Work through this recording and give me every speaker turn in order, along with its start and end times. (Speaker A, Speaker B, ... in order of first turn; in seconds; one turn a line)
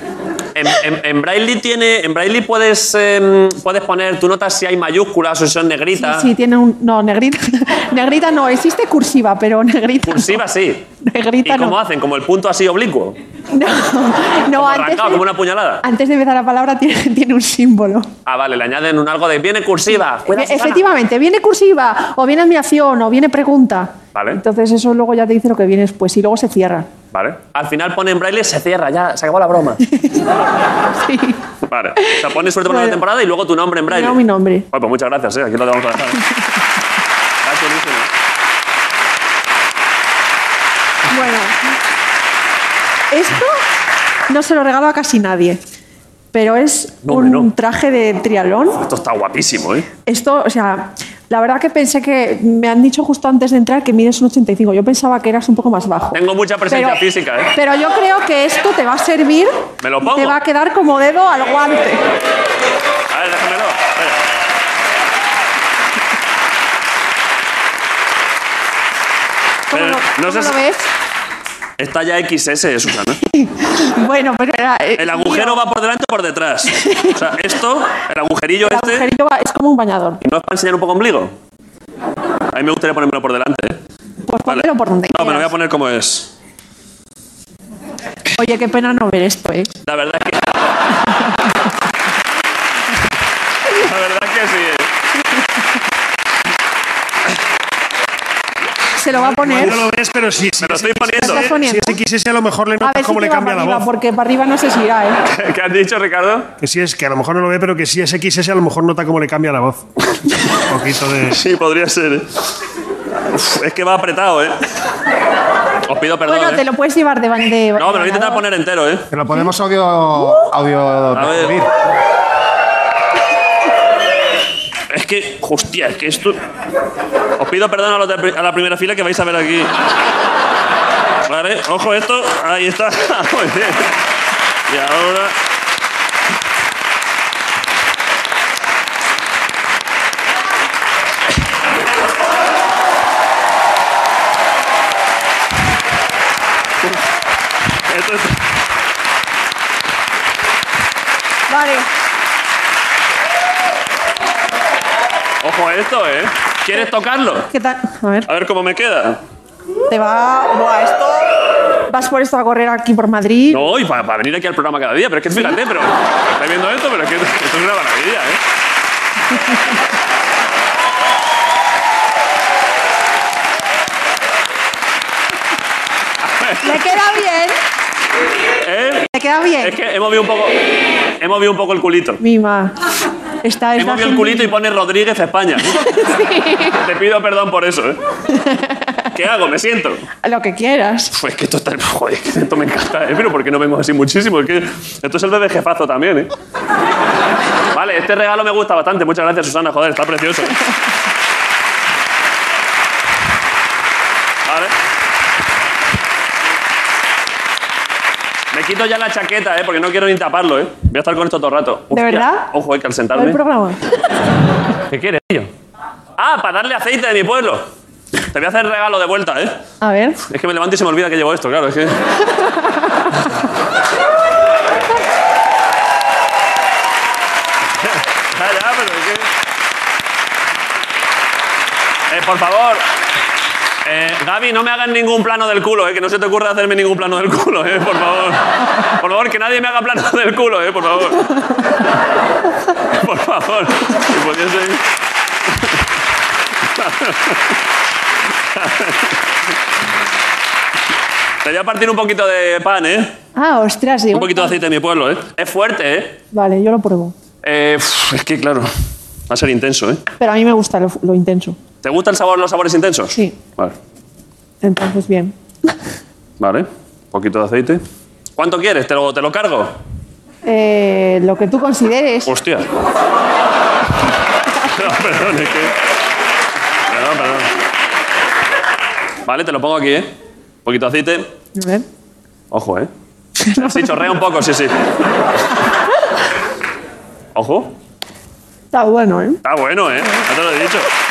Speaker A: 0.6-6.3
Speaker B: 6.0-10.4
Speaker A: 10.1-10.8
Speaker B: 11.0-11.8
Speaker A: 11.4-13.2
Speaker B: 13.5-15.2
Speaker A: 14.6-15.8
Speaker B: 15.8-18.1
Speaker A: 18.3-20.8
Speaker B: 20.3-26.9
Speaker A: 24.1-24.4
Speaker A: 27.1-29.8
Speaker B: 31.0-31.4
Speaker A: 31.6-36.2
Speaker B: 32.0-33.0
Speaker B: 33.9-34.7
Speaker A: 37.4-38.1
Speaker B: 41.1-41.8
Speaker B: 43.1-43.6
Speaker B: 44.3-45.6
Speaker B: 46.3-48.8
Speaker A: 47.0-47.5
Speaker A: 48.8-49.9
Speaker B: 50.1-62.0
Speaker A: 56.1-57.5
Speaker A: 59.8-60.4
Speaker A: 63.1-64.2
Speaker B: 69.7-70.9
Speaker A: 69.7-70.5
Speaker A: 71.8-73.2
Speaker B: 73.3-75.6
Speaker A: 75.0-79.1
Speaker B: 76.7-77.2
Speaker B: 78.6-80.2
Speaker A: 80.2-81.3
Speaker A: 82.5-83.8
Speaker B: 84.3-85.5
Speaker A: 84.5-86.3
Speaker B: 88.4-89.7
Speaker A: 89.8-90.8
Speaker A: 93.8-94.9
Speaker B: 99.0-99.8
Speaker C: 99.2-103.9
Speaker A: 100.6-101.5
Speaker B: 101.2-102.0
Speaker B: 102.8-105.2
Speaker A: 105.2-106.5
Speaker C: 106.6-109.8
Speaker C: 110.7-111.4
Speaker A: 111.3-112.4
Speaker A: 113.3-114.6
Speaker A: 115.9-116.6
Speaker B: 116.3-118.4
Speaker A: 117.8-119.1
Speaker D: 119.1-121.7
Speaker A: 121.1-121.6
Speaker A: 124.9-126.4
Speaker A: 127.4-129.7
Speaker A: 131.3-133.9
Speaker A: 134.7-135.4
Speaker A: 147.9-148.4
Speaker B: 151.5-151.9
Speaker A: 155.4-157.5
Speaker B: 157.5-158.3
Speaker A: 158.3-159.2
Speaker B: 159.9-161.2
Speaker B: 161.9-163.6
Speaker A: 163.5-168.4
Speaker A: 176.2-176.9
Speaker B: 176.6-177.6
Speaker A: 178.6-179.1
Speaker B: 179.1-179.8
Speaker A: 179.6-180.6
Speaker A: 181.2-182.2
Speaker B: 182.2-182.8
Speaker B: 183.4-184.5
Speaker A: 183.8-185.8
Speaker B: 185.7-186.8
Speaker A: 186.8-188.0
Speaker B: 188.3-189.0
Speaker A: 189.1-190.1
Speaker B: 190.2-191.1
Speaker A: 191.1-196.3
Speaker A: 197.7-200.6
Speaker A: 204.5-204.7
Speaker A: 208.5-213.4
Speaker B: 211.9-212.5
Speaker B: 213.1-213.8
Speaker A: 214.9-215.5
Speaker A: 216.2-217.7
Speaker A: 218.3-219.6
Speaker B: 219.8-220.2
Speaker A: 220.2-222.0
Speaker B: 222.3-223.1
Speaker A: 227.9-229.3
Speaker A: 232.1-232.9
Speaker A: 233.8-241.3
Speaker A: 242.9-244.8
Speaker A: 246.7-247.5
Speaker A: 248.5-249.2
Speaker A: 251.4-253.2
Speaker B: 253.4-254.6
Speaker A: 254.1-256.2
Speaker B: 256.3-257.1
Speaker A: 257.4-258.7
Speaker A: 259.3-260.0
Speaker B: 260.2-261.6
Speaker A: 261.8-263.8
Speaker B: 264.6-265.7
Speaker A: 266.4-267.8
Speaker A: 268.4-269.8
Speaker B: 270.4-272.3
Speaker A: 272.3-272.7
Speaker A: 274.7-275.7
Speaker A: 276.9-277.5
Speaker A: 279.3-280.1
Speaker A: 280.6-281.3
Speaker B: 281.6-281.9
Speaker A: 282.5-282.9
Speaker B: 283.5-284.1
Speaker A: 283.5-284.9
Speaker A: 287.4-287.7
Speaker B: 288.7-289.4
Speaker A: 289.4-290.9